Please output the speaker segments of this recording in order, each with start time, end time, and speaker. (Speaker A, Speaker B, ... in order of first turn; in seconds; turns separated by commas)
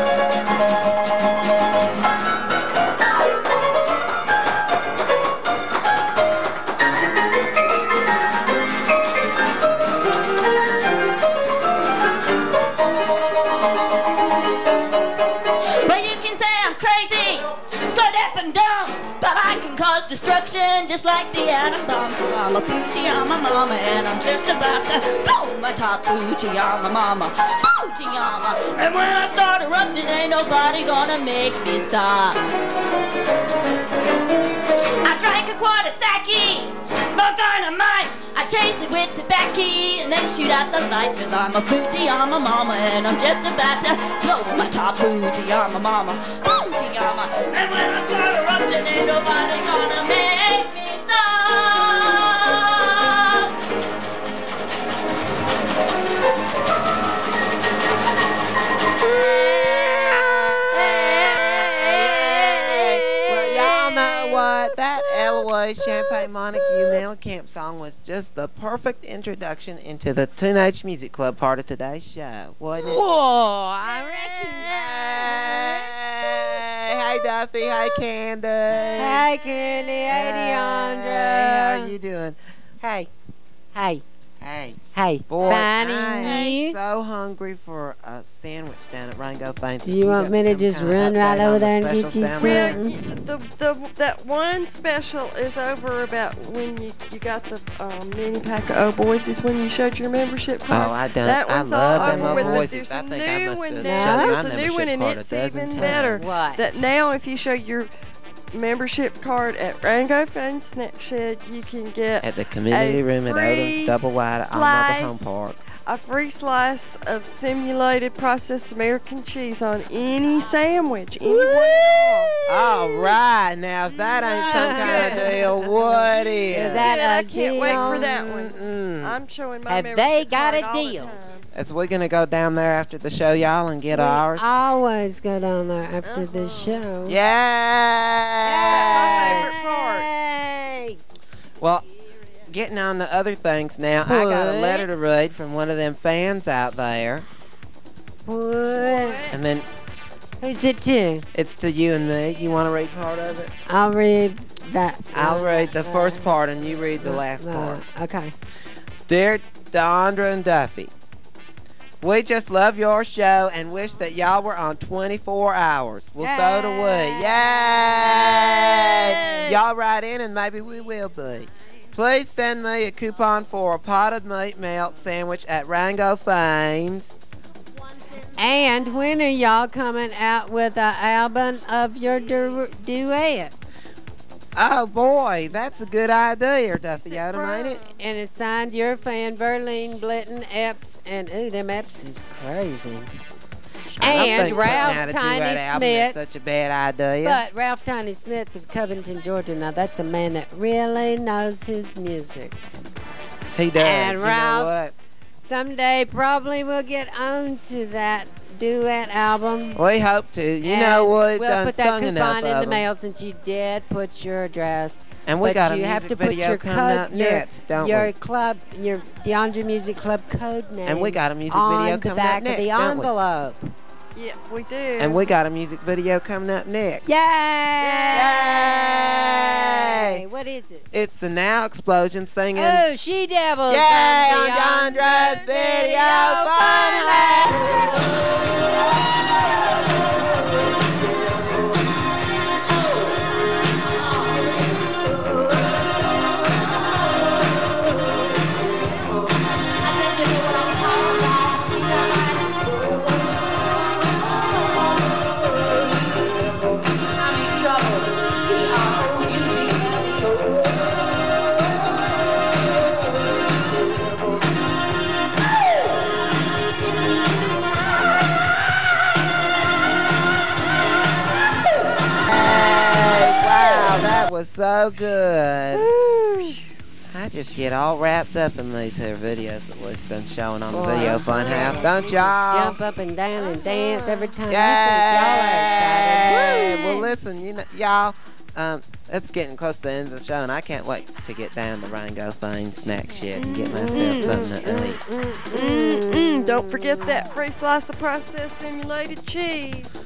Speaker A: 15.8-32.4, Speaker A: 35.0-53.5, Speaker B: 59.2-73.0, Speaker C: 62.7-64.5, Speaker C: 72.8-75.9, Speaker B: 74.5-79.2, Speaker C: 79.0-81.9, Speaker B: 80.1-82.4, Speaker C: 82.8-83.1, Speaker C: 83.7-84.0, Speaker B: 84.4-92.8, Speaker C: 84.9-86.8, Speaker C: 89.8-93.0, Speaker D: 92.4-107.9, Speaker B: 100.7-106.4, Speaker C: 101.9-102.7, Speaker C: 103.8-104.4, Speaker C: 105.7-106.8, Speaker D: 108.5-113.9, Speaker B: 112.2-115.6, Speaker D: 114.5-115.3, Speaker D: 115.9-123.2, Speaker C: 121.3-122.3, Speaker B: 122.5-126.9, Speaker D: 123.9-131.5, Speaker C: 124.3-125.3, Speaker C: 126.5-128.1, Speaker B: 127.6-129.2, Speaker C: 129.7-131.2, Speaker B: 131.5-134.6, Speaker C: 133.9-137.2, Speaker D: 136.0-136.9, Speaker B: 137.1-139.5, Speaker C: 138.4-140.9, Speaker D: 138.7-140.1, Speaker B: 142.5-147.3, Speaker C: 144.0-144.9, Speaker C: 148.3-149.3, Speaker D: 148.8-149.3, Speaker B: 149.3-149.7, Speaker C: 150.4-151.3, Speaker B: 151.3-153.5, Speaker C: 153.7-156.4, Speaker B: 155.1-157.8, Speaker C: 157.0-158.3, Speaker B: 159.1-160.9, Speaker B: 162.0-177.1, Speaker C: 166.2-168.1, Speaker D: 168.2-169.6, Speaker C: 178.4-183.5, Speaker B: 184.6-187.8, Speaker C: 188.0-193.1, Speaker D: 193.9-195.0, Speaker C: 194.0-196.4, Speaker B: 194.0-197.4, Speaker C: 197.2-202.6, Speaker B: 203.5-204.9, Speaker C: 203.8-204.7, Speaker C: 205.4-209.8, Speaker B: 209.8-212.9, Speaker C: 210.6-223.7, Speaker B: 215.3-218.1, Speaker B: 220.8-223.1, Speaker D: 224.2-225.3, Speaker B: 225.0-227.0, Speaker C: 227.1-228.9, Speaker D: 227.8-228.5, Speaker B: 228.1-230.2, Speaker C: 229.7-230.9, Speaker B: 230.9-232.8, Speaker C: 232.6-237.3, Speaker B: 233.7-237.6, Speaker B: 272.3-275.9, Speaker B: 277.1-282.8, Speaker C: 280.7-287.1, Speaker D: 281.4-282.1, Speaker D: 283.4-284.4, Speaker B: 284.5-295.0, Speaker D: 293.4-294.5, Speaker C: 294.2-297.2, Speaker D: 295.5-299.9